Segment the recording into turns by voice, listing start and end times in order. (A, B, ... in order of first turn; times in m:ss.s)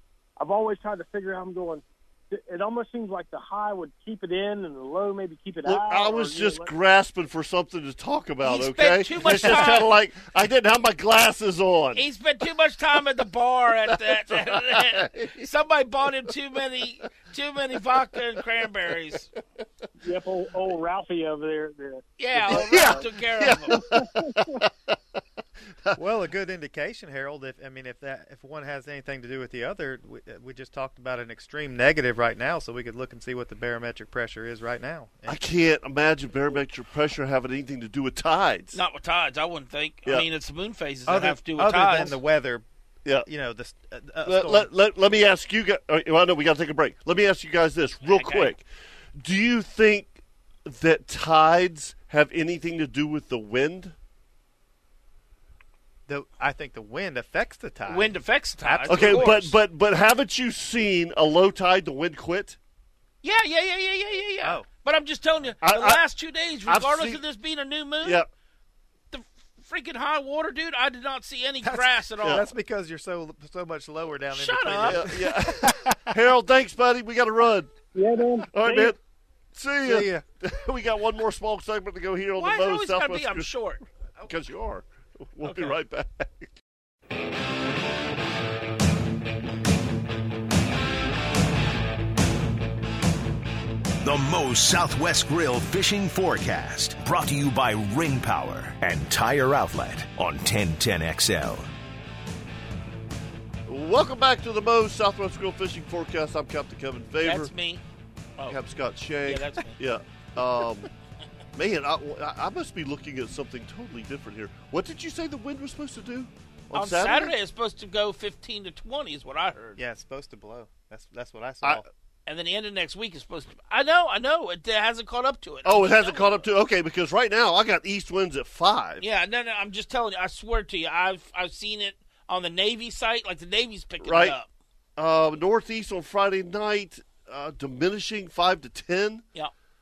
0:00.4-0:06.7 A
0:05.6-0:12.0 B
0:08.4-0:09.9 C
0:09.3-0:09.7 D
0:12.0-0:19.3 C
0:13.9-0:15.4 B
0:20.0-0:23.1 A
0:22.2-0:23.8 C
0:22.5-0:25.0 B
0:23.7-0:24.6 A
0:26.0-0:35.4 D
0:35.3-0:38.8 B
0:38.7-0:42.2 C
0:41.1-0:42.6 D
0:43.2-0:44.7 D
0:44.2-0:48.6 B
0:48.1-0:48.6 C
0:49.2-0:54.0 B
0:56.1-0:59.4 D
0:57.9-0:59.5 C
0:58.9-1:02.6 B
1:03.2-1:08.2 C
1:05.6-1:06.0 B
1:06.7-1:07.2 B
1:08.0-1:08.3 B
1:09.1-1:12.5 C
1:11.6-1:16.2 D
1:14.3-1:15.1 C
1:14.9-1:17.7 B
1:17.9-1:19.0 A
1:18.5-1:19.0 B
1:19.5-1:23.5 B
1:19.8-1:20.2 D
1:22.4-1:23.8 C
1:24.2-1:26.5 B
1:25.4-1:25.8 C
1:34.0-1:41.7 E
1:43.7-1:47.5 B
1:47.2-1:47.8 C
1:48.5-1:50.9 B
1:49.2-1:49.8 C
1:51.6-1:57.3 B
1:56.7-1:59.8 C
1:59.8-2:01.9 D
2:02.3-2:06.5 C
2:05.6-2:09.0 B
2:09.0-2:14.5 C
2:14.0-2:14.4 B
2:15.0-2:19.2 B